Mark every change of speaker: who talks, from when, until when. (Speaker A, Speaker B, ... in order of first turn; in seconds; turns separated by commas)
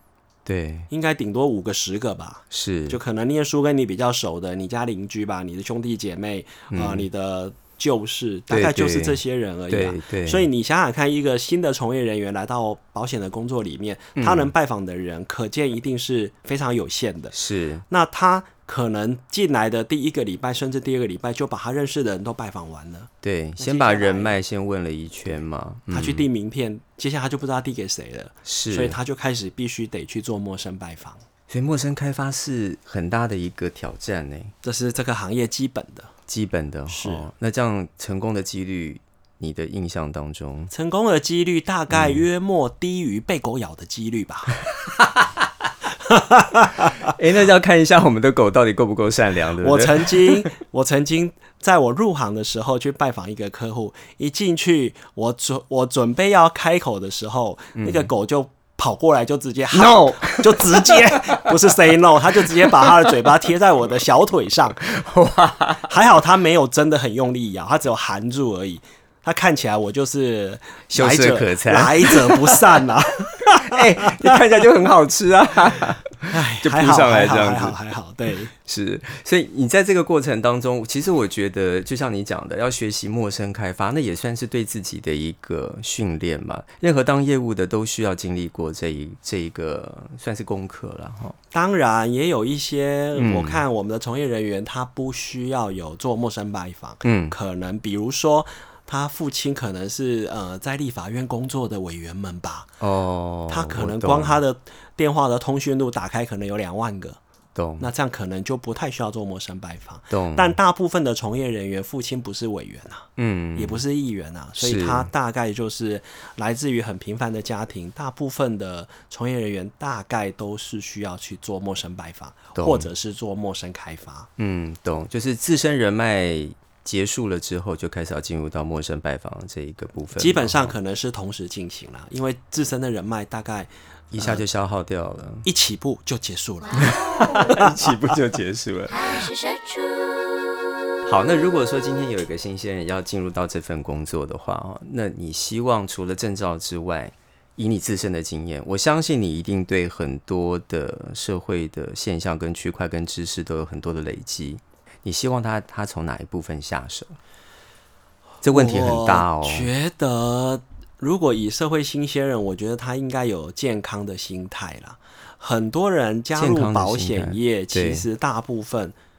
Speaker A: 0.5-0.9, Speaker B: 0.9-17.4, Speaker A: 2.5-3.0, Speaker A: 6.7-7.1, Speaker A: 8.5-10.5, Speaker A: 14.2-14.5, Speaker A: 17.3-17.8, Speaker B: 17.9-24.4, Speaker A: 23.2-26.3, Speaker B: 25.9-31.2, Speaker A: 28.4-29.0, Speaker A: 31.5-34.5, Speaker B: 34.6-36.1, Speaker A: 36.3-40.7, Speaker B: 36.9-37.3, Speaker B: 40.7-44.6, Speaker A: 41.9-42.2, Speaker B: 46.0-47.1, Speaker A: 47.0-50.5, Speaker B: 49.6-64.8, Speaker A: 57.8-58.1, Speaker A: 59.7-61.8, Speaker A: 62.3-63.3, Speaker A: 64.8-66.0, Speaker B: 65.9-74.4, Speaker A: 70.9-72.9, Speaker A: 73.5-77.8, Speaker B: 76.3-78.5, Speaker A: 78.7-91.4, Speaker B: 91.5-102.7, Speaker A: 93.2-93.6, Speaker A: 97.0-97.4, Speaker A: 102.8-104.4, Speaker B: 103.5-107.2, Speaker A: 107.5-107.9, Speaker B: 107.8-124.3, Speaker A: 110.1-110.6, Speaker A: 113.2-113.8, Speaker A: 114.6-115.1, Speaker A: 122.5-122.9, Speaker A: 124.4-130.7, Speaker B: 130.2-134.4, Speaker A: 134.1-135.5, Speaker B: 135.4-137.9, Speaker C: 136.8-137.5, Speaker A: 136.8-139.2, Speaker C: 138.9-140.4, Speaker A: 141.1-157.2, Speaker A: 158.4-159.7, Speaker B: 158.5-169.0, Speaker A: 166.4-168.1